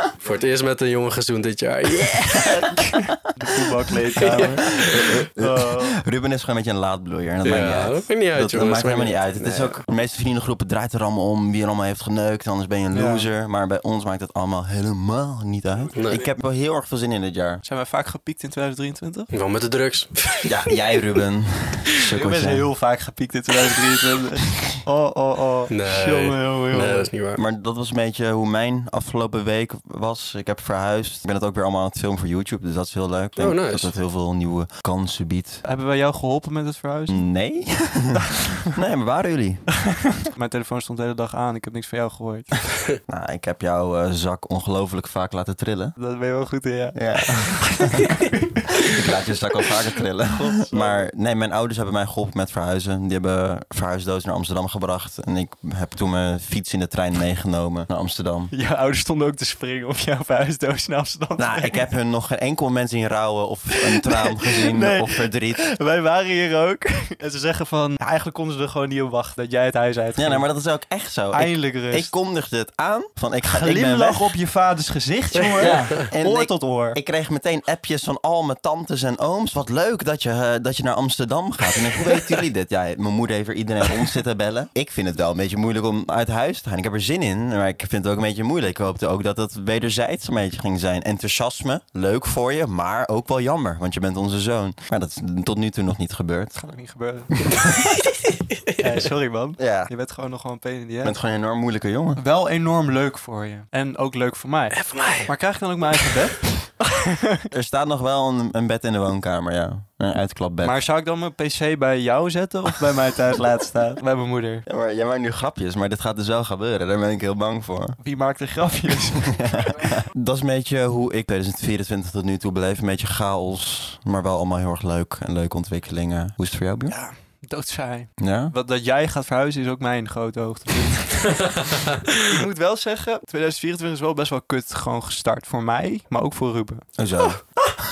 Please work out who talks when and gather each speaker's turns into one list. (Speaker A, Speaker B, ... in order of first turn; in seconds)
Speaker A: 0.2-2.7, 4.2-5.1, 7.4-9.8, 15.9-16.2, 19.3-21.2, 25.7-27.4, 33.4-33.9, 75.7-76.0, 104.8-105.3, 131.4-132.1
Speaker B: 2.4-3.1, 4.2-17.6, 20.4-22.7, 27.4-35.6, 37.1-39.7, 43.1-46.0, 47.0-48.1, 48.8-58.5, 61.4-65.7, 70.2-74.3, 75.6-96.6, 97.6-98.0, 99.6-99.9, 101.0-102.2, 107.5-110.8, 114.7-118.0, 119.2-127.0, 128.2-128.5, 137.0-137.4
Speaker C: 2.4-6.0, 12.9-13.3, 17.6-19.3, 22.1-27.1, 35.6-37.2, 40.2-42.6, 46.0-48.9, 50.3-51.0, 58.5-61.8, 63.9-70.5, 71.3-72.1, 73.5-77.0, 96.6-97.6, 98.8-101.2, 102.2-107.5, 110.6-114.7, 118.0-119.9, 126.9-136.9